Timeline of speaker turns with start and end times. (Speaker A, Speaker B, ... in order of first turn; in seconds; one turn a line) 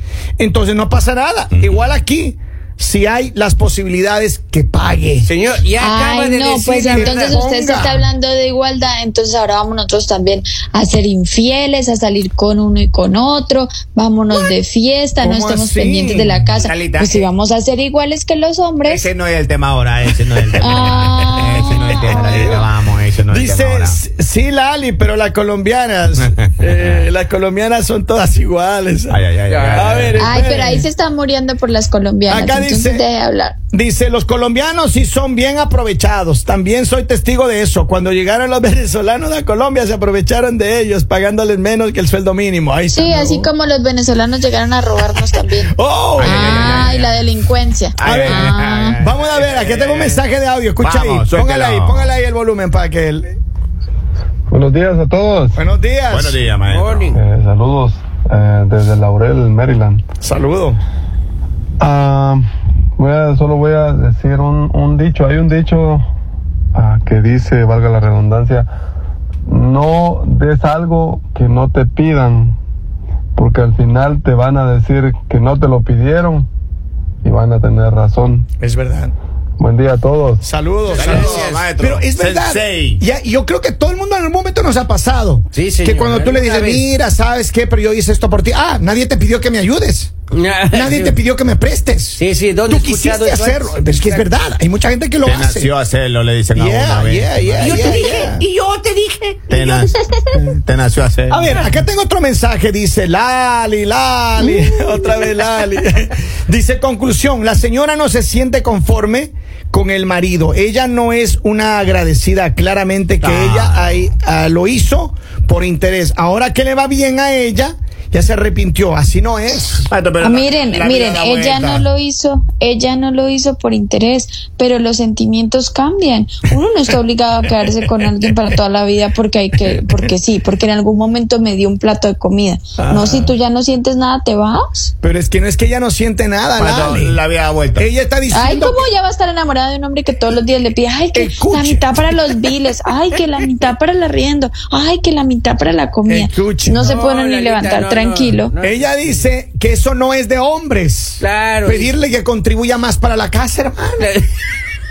Speaker A: 0.4-5.3
Speaker B: 1.5-1.8
Speaker C: 5.2-7.4
Speaker D: 5.8-19.0
Speaker A: 6.9-8.1
Speaker A: 15.2-16.5
Speaker B: 16.6-17.2
Speaker B: 18.9-24.0
Speaker D: 20.6-22.5
Speaker A: 20.7-22.7
Speaker A: 23.3-29.2
Speaker B: 26.4-27.1
Speaker B: 29.1-30.3
Speaker C: 29.5-30.0
Speaker A: 29.7-30.9
Speaker D: 30.2-33.5
Speaker A: 32.3-33.0
Speaker A: 33.7-43.5
Speaker D: 42.9-49.0
Speaker A: 45.7-46.9
Speaker B: 46.2-47.2
Speaker B: 48.0-50.2
Speaker A: 48.0-53.4
Speaker B: 50.8-52.1
Speaker E: 54.5-55.6
Speaker A: 55.5-56.4
Speaker B: 56.1-57.2
Speaker C: 56.6-57.2
Speaker E: 57.1-60.0
Speaker A: 60.2-60.8
Speaker E: 61.8-62.4
Speaker E: 63.0-66.0
Speaker E: 66.7-68.7
Speaker E: 69.5-72.5
Speaker E: 73.4-76.5
Speaker E: 77.2-78.5
Speaker A: 78.6-79.1
Speaker E: 79.6-80.4
Speaker A: 80.4-90.1
Speaker C: 80.9-81.6
Speaker B: 80.9-83.0
Speaker C: 85.5-86.9
Speaker C: 90.3-91.2
Speaker A: 90.7-95.7
Speaker C: 92.2-94.3
Speaker B: 95.2-98.1
Speaker A: 96.5-98.4
Speaker C: 97.6-99.7
Speaker B: 99.5-101.6
Speaker A: 101.3-119.9
Speaker C: 101.3-101.8
Speaker D: 104.4-105.4
Speaker B: 113.2-113.9
Speaker B: 119.9-121.8
Speaker D: 120.2-134.9
Speaker A: 132.8-133.3
Speaker A: 135.0-137.2
Speaker B: 136.6-137.9
Speaker A: 137.8-138.9
Speaker D: 138.3-148.5
Speaker A: 141.1-142.5
Speaker A: 146.1-146.9
Speaker C: 146.8-149.2
Speaker A: 148.6-154.1
Speaker C: 151.2-151.9
Speaker C: 154.0-154.3